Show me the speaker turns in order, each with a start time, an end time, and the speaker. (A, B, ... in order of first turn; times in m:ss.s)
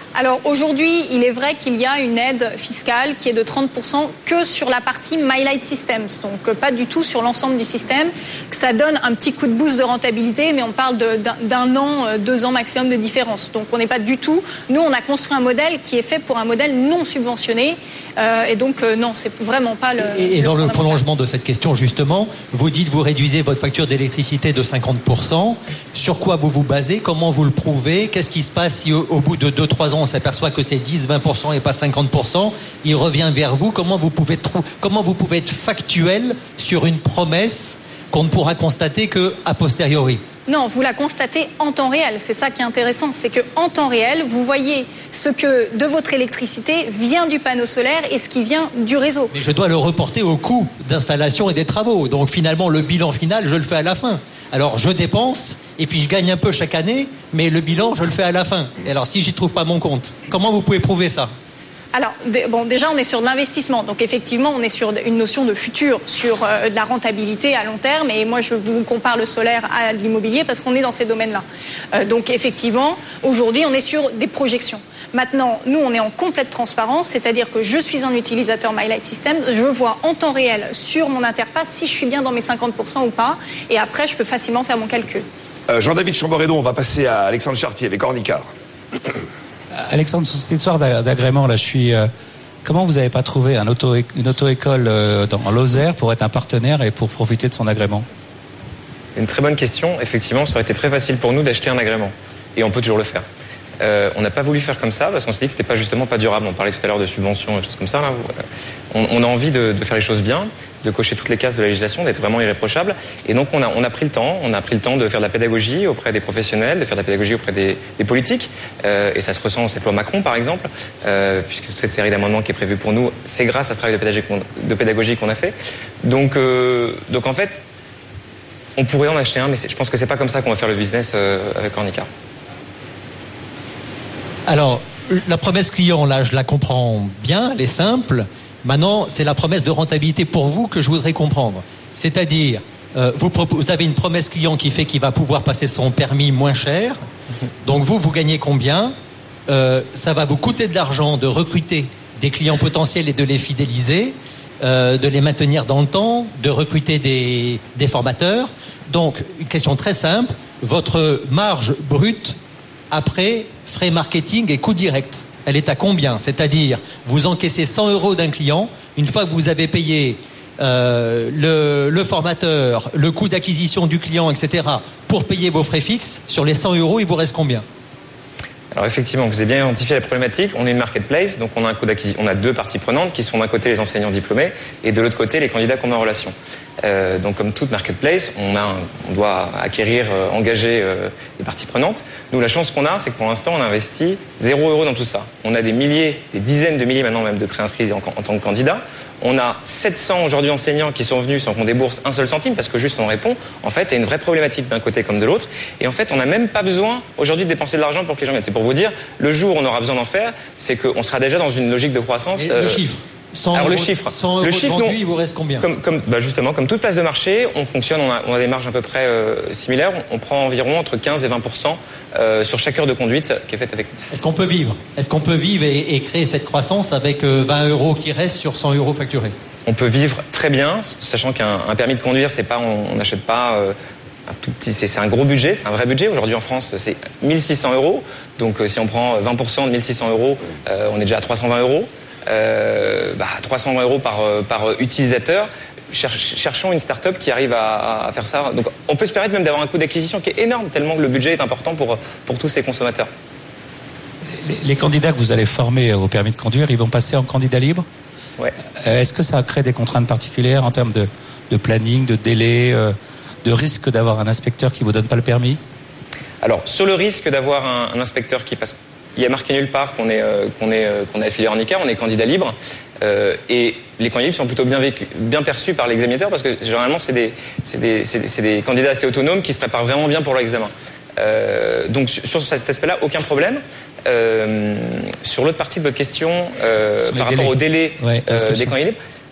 0:00.1-0:21.0 A
0:20.1-0:40.2 B
0:40.5-0:49.3 A
0:49.3-1:01.3 B
1:01.9-1:25.2 A
1:25.7-1:28.5 C
1:29.9-1:32.1 D
1:32.6-1:38.0 D
1:39.2-1:43.2 E
1:43.8-1:48.4 E
1:48.9-2:07.6 E
2:08.8-2:12.1 E
2:14.5-2:27.0 B
2:27.6-2:29.0 B
2:29.5-2:42.4 B
2:42.9-2:57.6 B
2:58.7-3:32.8 E
3:32.4-3:35.7 B
3:33.5-3:35.0 E
3:35.6-3:43.9 E
3:44.1-3:49.3 B
3:49.7-3:53.8 E
3:54.3-4:13.1 E
4:14.4-4:17.8 D
4:18.8-4:25.6 D
4:26.4-4:49.0 E
4:47.0-4:48.8 D